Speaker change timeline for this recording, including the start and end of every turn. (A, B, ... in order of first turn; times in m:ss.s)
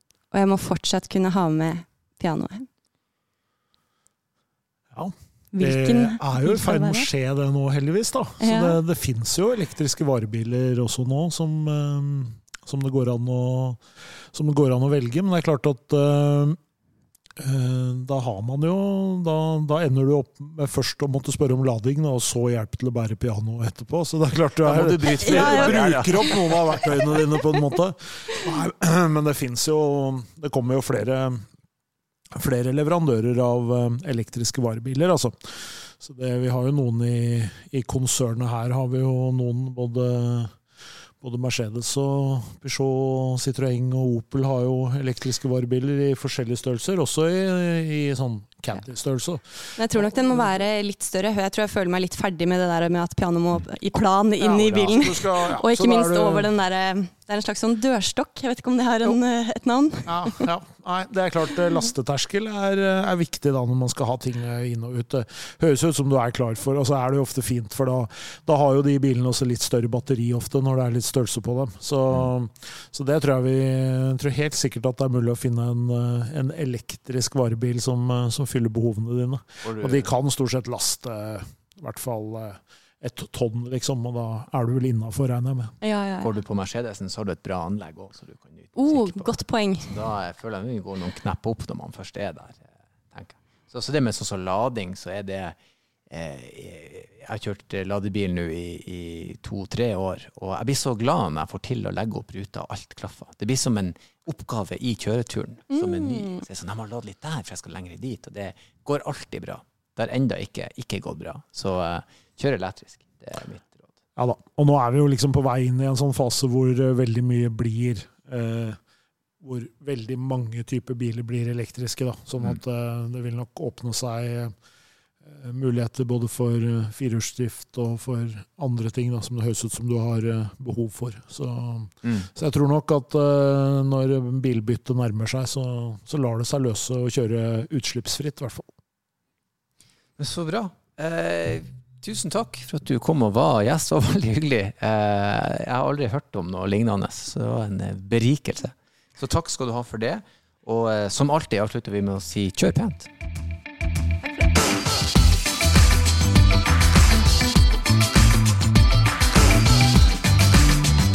0:00.3-0:02.7 A
0:04.9-0:16.6 B
0:05.5-0:07.1 A
0:08.4-0:08.8 A
0:17.4-0:31.4 B
0:24.6-0:26.8 C
0:25.2-0:27.2 A
0:32.3-0:40.6 B
0:41.2-0:50.5 B
0:49.8-1:00.5 A
0:54.4-0:56.5 B
1:00.1-1:25.7 B
1:19.6-1:20.1 C
1:25.8-1:26.3 A
1:26.2-1:35.6 C
1:28.8-1:29.9 A
1:36.1-1:53.9 C
1:45.7-1:46.4 A
1:54.2-1:58.8 B
1:59.4-2:04.5 B
2:05.2-2:18.7 B
2:20.2-2:33.1 C